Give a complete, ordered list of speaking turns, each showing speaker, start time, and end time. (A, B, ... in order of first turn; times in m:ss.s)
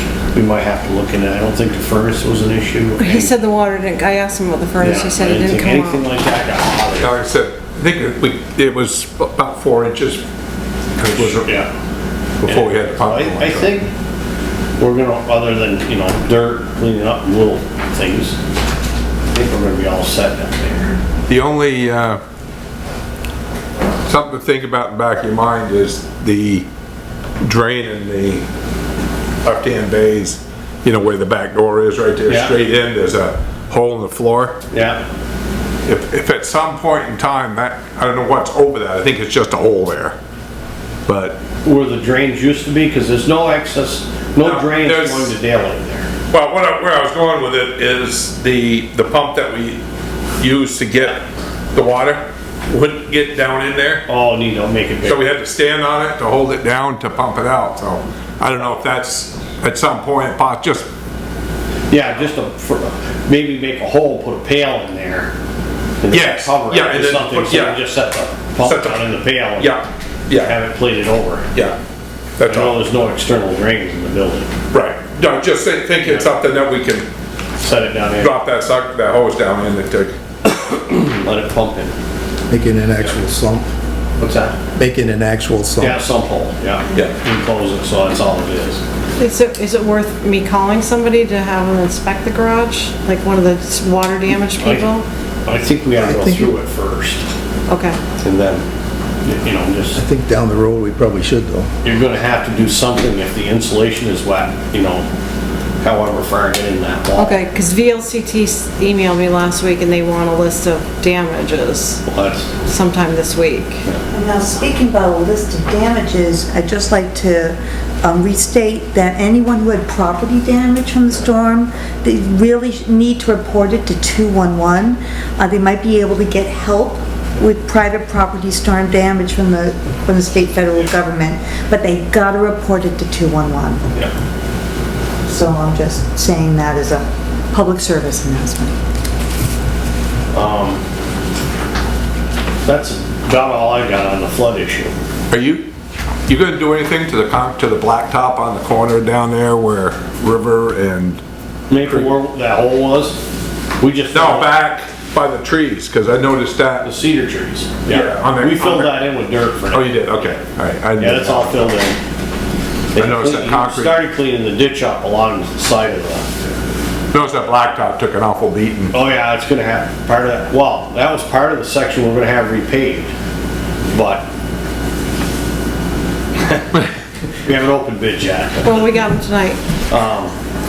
0:00.3-0:03.4 A
0:03.0-0:06.0 B
0:04.8-0:07.1 A
0:07.0-0:10.2 C
0:11.0-0:11.5 C
0:11.2-0:11.7 A
0:12.4-0:13.7 C
0:12.4-0:13.9 A
0:14.8-0:18.4 A
0:19.3-0:21.0 A
0:21.3-0:22.2 C
0:24.0-0:26.7 C
0:27.4-0:28.4 C
0:29.4-0:34.6 C
0:32.3-0:32.6 A
0:34.7-0:35.0 A
0:35.8-0:40.2 C
0:41.1-0:41.4 C
0:41.6-0:46.1 A
0:44.4-0:45.3 C
0:46.3-0:49.8 C
0:50.4-0:51.2 C
0:51.7-0:54.0 C
0:54.1-0:55.2 A
0:55.0-1:00.8 C
1:01.9-1:05.3 A
1:06.0-1:09.8 A
1:06.1-1:07.8 C
1:08.6-1:10.5 C
1:10.4-1:11.4 A
1:12.4-1:12.8 C
1:12.4-1:14.5 A
1:14.7-1:17.1 C
1:16.0-1:16.3 A
1:17.6-1:18.3 A
1:18.2-1:20.1 C
1:20.4-1:21.9 A
1:22.5-1:23.7 D
1:24.2-1:24.6 A
1:24.8-1:26.0 D
1:25.8-1:28.8 A
1:29.2-1:35.0 B
1:34.6-1:34.9 A
1:35.4-1:37.2 A
1:36.0-1:36.5 D
1:37.7-1:38.0 B
1:38.2-1:38.6 A
1:39.2-1:40.0 A
1:39.9-1:41.7 D
1:41.8-1:45.1 A
1:45.8-1:47.4 A
1:47.2-1:52.0 B
1:52.0-1:52.5 A
1:52.6-1:53.8 B
1:54.1-2:13.8 E
2:15.2-2:18.7 E
2:20.3-2:20.8 A
2:22.6-2:24.9 A
2:25.3-2:25.7 C
2:26.3-2:31.2 C
2:31.7-2:33.2 A
2:31.8-2:32.1 C
2:33.8-2:34.5 A
2:34.1-2:36.9 C
2:36.8-2:40.0 A
2:37.9-2:39.1 C
2:39.7-2:41.7 C
2:41.0-2:42.0 A
2:42.9-2:46.3 A
2:43.0-2:44.0 C
2:47.1-2:48.9 C
2:48.9-2:53.1 A
2:53.9-2:54.3 A
2:57.4-2:58.9 A
2:58.6-2:59.6 B
2:59.9-3:00.3 A